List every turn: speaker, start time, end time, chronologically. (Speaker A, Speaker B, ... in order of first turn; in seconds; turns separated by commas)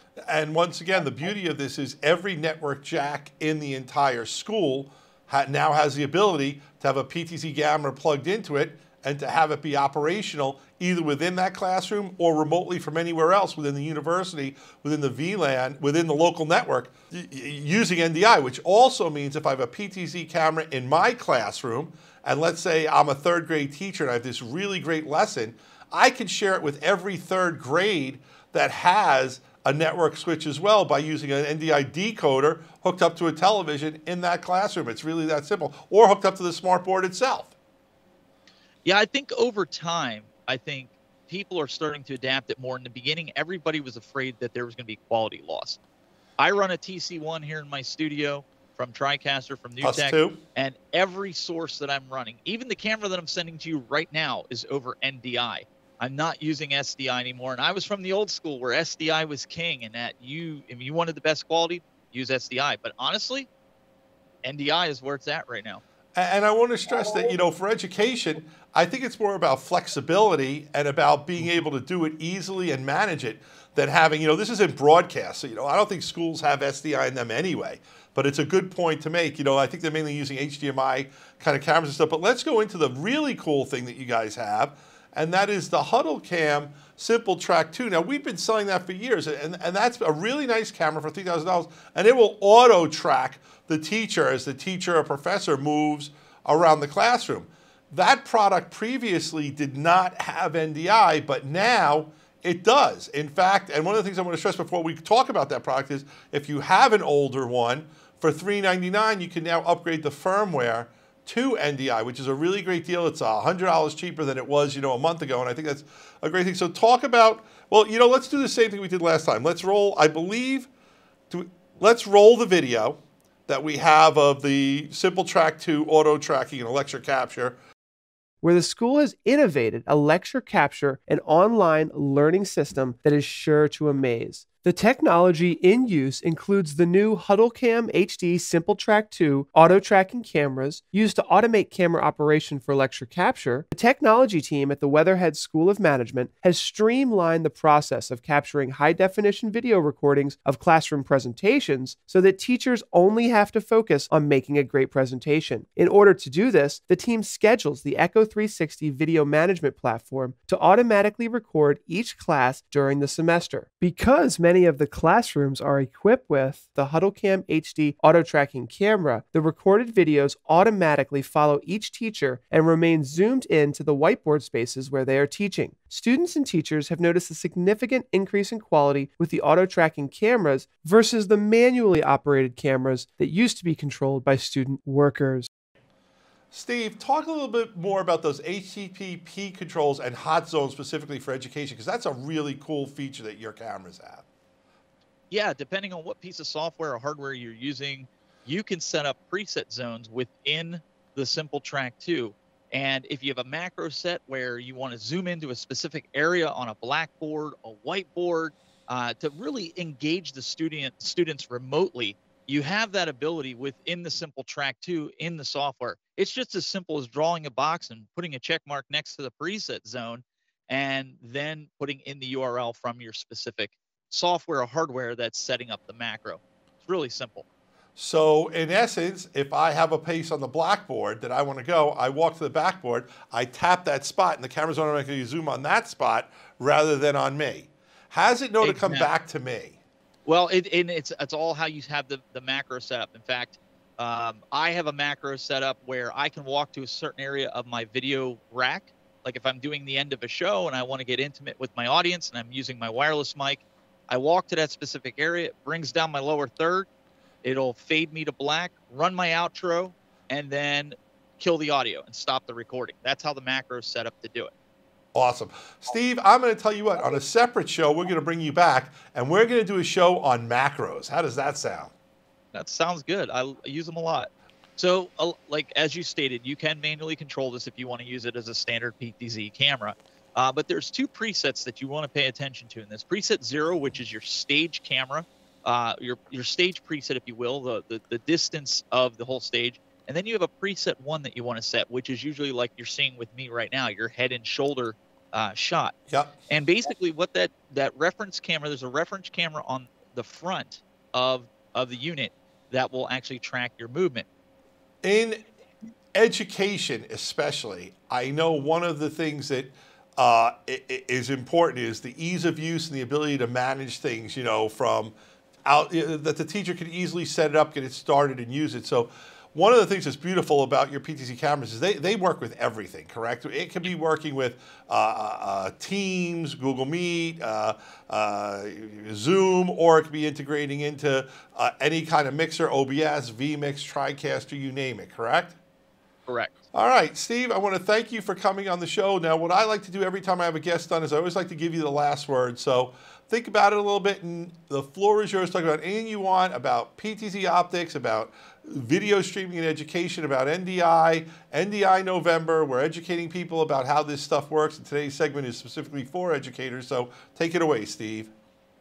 Speaker A: 0.3-37.5, Speaker B: 38.8-45.8, Speaker B: 46.4-63.5, Speaker A: 49.8-50.4, Speaker B: 64.4-65.8, Speaker A: 66.2-120.7, Speaker A: 121.3-127.6, Speaker C: 128.4-185.5, Speaker A: 186.5-194.2, Speaker B: 195.3-227.4, Speaker A: 228.0-239.8, Speaker B: 238.6-239.1, Speaker B: 240.2-256.9, Speaker B: 257.4-264.5, Speaker A: 265.1-271.9, Speaker B: 272.5-295.9, Speaker B: 296.5-304.2, Speaker A: 305.0-305.4, Speaker A: 306.1-315.1, Speaker A: 315.6-335.6, Speaker B: 336.3-336.5, Speaker A: 336.7-358.3